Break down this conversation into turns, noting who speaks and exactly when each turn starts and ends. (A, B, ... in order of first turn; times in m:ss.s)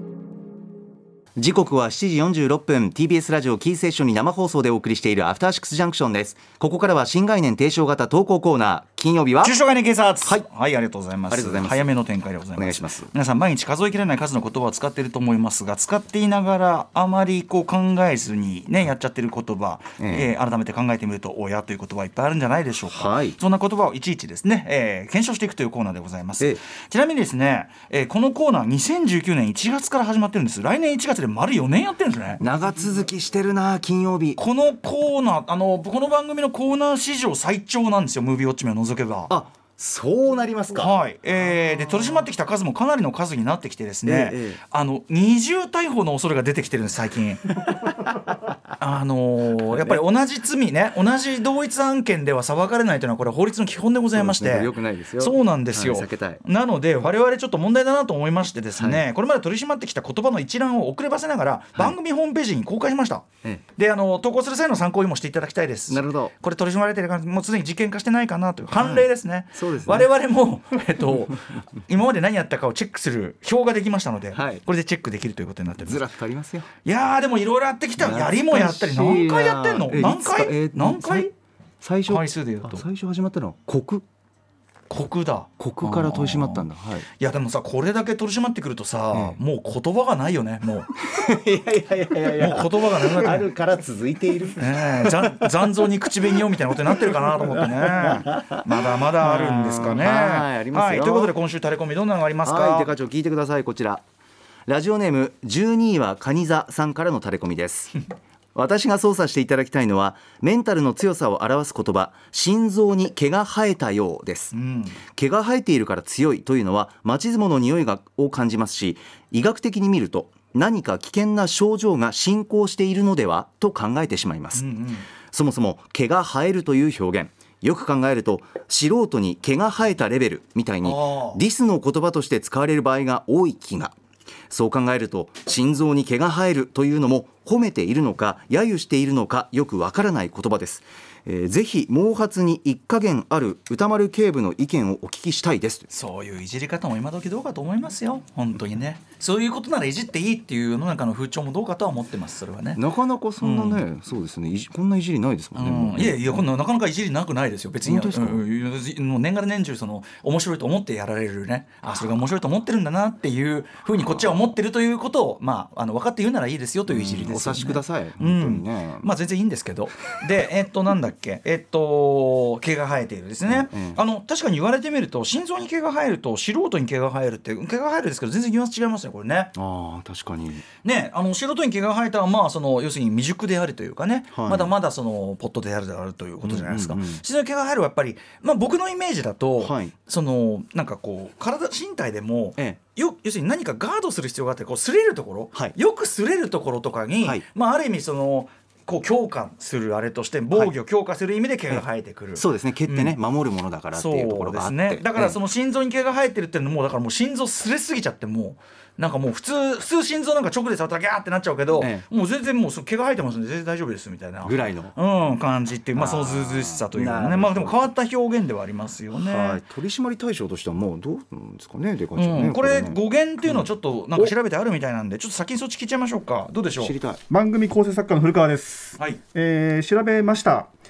0:01.4-0:09.6 A
0:09.4-0:32.4 B
0:11.3-0:12.0 A
0:12.6-0:13.1 A
0:20.0-0:20.3 A
0:22.8-0:23.4 A
0:32.4-0:34.4 A
0:34.4-0:39.3 B
0:39.3-0:42.3 A
0:40.8-0:47.5 B
0:44.0-0:44.6 A
0:47.5-0:48.6 A
0:48.8-1:16.1 B
0:49.7-0:50.0 A
0:54.1-0:56.4 A
0:58.8-0:59.0 A
1:05.9-1:06.3 A
1:08.7-1:10.1 A
1:14.3-1:14.6 A
1:15.8-1:16.7 A
1:16.8-1:21.3 B
1:18.0-1:24.0 A
1:22.1-1:22.8 B
1:24.9-1:30.9 B
1:25.6-1:27.1 A
1:29.1-1:29.4 A
1:30.9-1:35.5 A
1:32.3-1:33.5 B
1:34.6-1:42.9 B
1:37.1-1:41.3 A
1:42.4-1:44.0 A
1:44.7-1:54.5 A
1:54.5-1:55.0 B
1:55.1-2:04.7 A
2:04.5-2:05.1 B
2:05.3-2:13.9 A
2:10.8-2:11.4 B
2:14.5-2:25.9 A
2:25.9-2:32.8 B
2:32.7-2:36.4 A
2:33.4-2:33.8 B
2:35.5-2:59.5 B
2:37.8-2:38.4 A
2:44.0-2:44.5 A
2:46.9-2:49.1 A
2:53.4-2:54.0 A
2:59.5-3:00.6 A
3:00.8-3:23.2 B
3:04.3-3:04.7 A
3:06.4-3:07.2 A
3:09.6-3:09.9 A
3:17.2-3:17.4 A
3:21.7-3:25.4 A
3:23.9-3:39.6 B
3:31.7-3:32.0 A
3:34.4-3:35.0 A
3:35.9-3:37.9 A
3:39.1-3:43.7 A
3:42.1-3:46.9 B
3:46.8-3:47.2 A
3:47.3-3:50.7 C